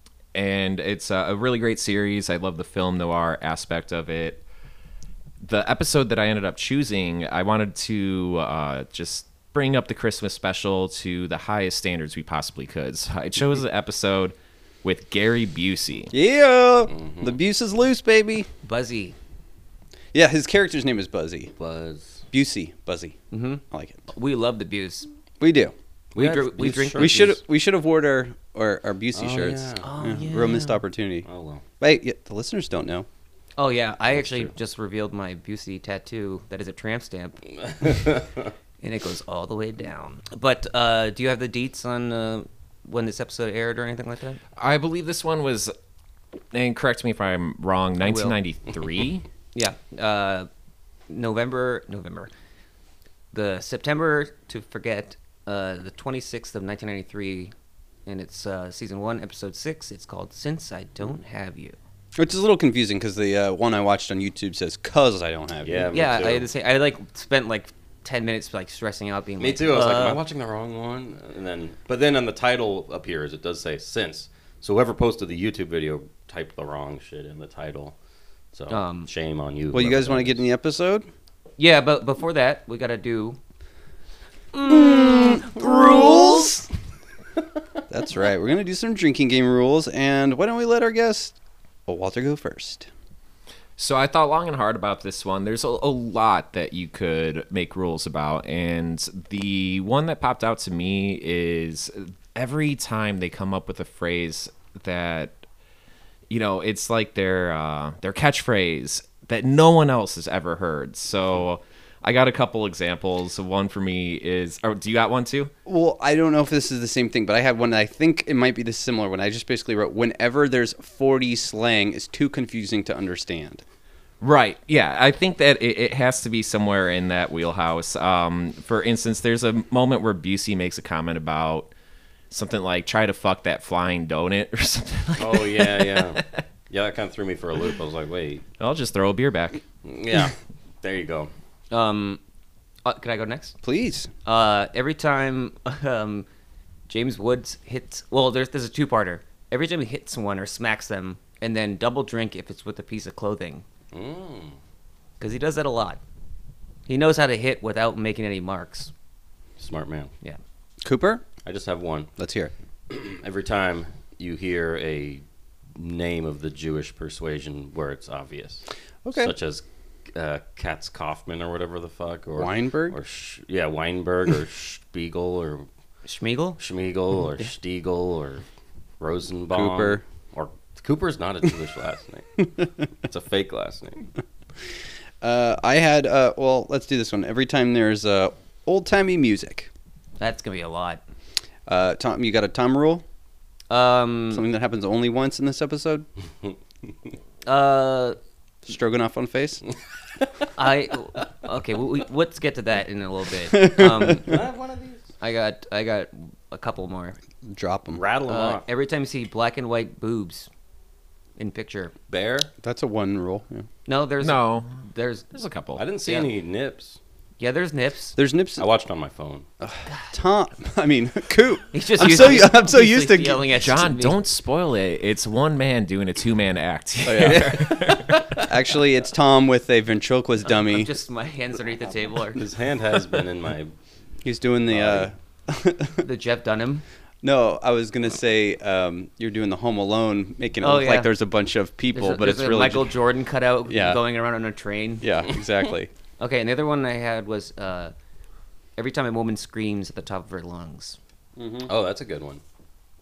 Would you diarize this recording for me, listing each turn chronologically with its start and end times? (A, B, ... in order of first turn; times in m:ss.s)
0:00.3-0:04.4 A
0:05.4-0:16.1 A
0:16.1-0:18.5 B
0:16.9-0:17.3 C
0:18.6-0:19.2 D
0:20.1-0:21.5 B
0:21.6-0:22.2 C
0:22.3-0:23.2 B
0:23.3-0:25.1 D
0:23.7-0:24.0 B
0:25.4-0:25.7 B
0:26.1-0:27.4 C
0:26.2-0:27.4 D
0:27.0-0:31.3 B
0:29.1-0:29.8 C
0:29.8-0:30.8 D
0:31.2-0:31.6 C
0:31.8-0:33.1 B
0:33.6-0:38.2 D
0:34.1-0:34.5 C
0:37.8-0:38.3 C
0:38.8-0:44.4 D
0:44.6-0:45.7 A
0:46.5-0:49.2 A
0:48.0-0:48.3 D
0:49.5-0:50.5 D
0:51.1-0:52.3 D
0:53.3-0:57.5 D
0:58.1-1:01.8 D
1:02.2-1:05.9 B
1:05.6-1:06.5 C
1:05.9-1:10.2 D
1:09.4-1:17.9 C
1:18.5-1:20.4 C
1:18.7-1:19.1 D
1:19.7-1:21.1 B
1:21.6-1:23.4 D
1:24.5-1:26.3 D
1:24.6-1:26.7 B
1:27.9-1:31.4 B
1:31.9-1:32.9 B
1:33.8-1:45.4 A
1:46.3-1:55.5 A
1:55.7-2:03.6 B
2:04.2-2:11.7 A
2:12.3-2:16.4 A
2:15.2-2:18.4 C
2:18.6-2:19.6 A
2:19.8-2:21.3 C
2:21.7-2:22.2 D
2:22.8-2:23.6 D
2:23.6-2:24.1 B
2:24.2-2:26.3 D
2:26.9-2:33.6 D
2:33.9-2:34.6 C
2:35.2-2:36.0 D
2:36.9-2:38.9 D
2:39.6-2:40.1 C
2:40.8-2:41.2 B
2:41.4-2:42.1 C
2:42.2-2:42.5 B
2:42.9-2:45.2 C
2:45.7-2:48.6 C
2:49.0-2:49.3 B
2:49.2-2:55.7 C
2:52.4-2:53.0 B
2:56.0-2:56.6 D
2:56.6-2:58.4 C
2:59.0-3:04.1 C
2:59.5-3:00.0 B
3:05.2-3:09.7 B
3:10.2-3:11.0 D
3:11.7-3:13.0 B
3:13.7-3:14.4 D
3:14.3-3:16.1 B
3:17.4-3:18.2 D
3:18.7-3:19.6 B
3:20.6-3:24.4 D
3:23.5-3:24.2 B
3:24.0-3:25.1 C
3:25.2-3:27.2 D
3:27.4-3:28.0 B
3:27.9-3:28.7 C
3:28.2-3:30.5 D
3:31.4-3:31.9 D
3:32.1-3:32.5 C
3:32.6-3:33.6 B
3:33.8-3:35.2 D
3:34.2-3:34.7 A
3:35.3-3:35.8 A
3:35.8-3:37.0 C
3:36.1-3:36.3 D
3:37.4-3:38.2 D
3:38.2-3:38.7 B
3:38.6-3:39.4 C
3:39.6-3:43.4 B
3:41.7-3:44.2 D
3:43.6-3:48.5 A
3:47.0-3:50.9 B
3:50.5-3:52.4 D
3:52.3-3:53.7 C
3:54.2-3:56.0 B
3:54.7-3:55.1 C
3:56.0-3:56.8 D
3:57.2-4:02.9 B
4:00.6-4:01.1 D
4:01.9-4:05.1 D
4:03.7-4:04.0 B
4:05.0-4:05.9 B
4:06.2-4:07.9 D
4:08.8-4:11.0 D
4:11.4-4:11.7 B
4:11.7-4:12.4 C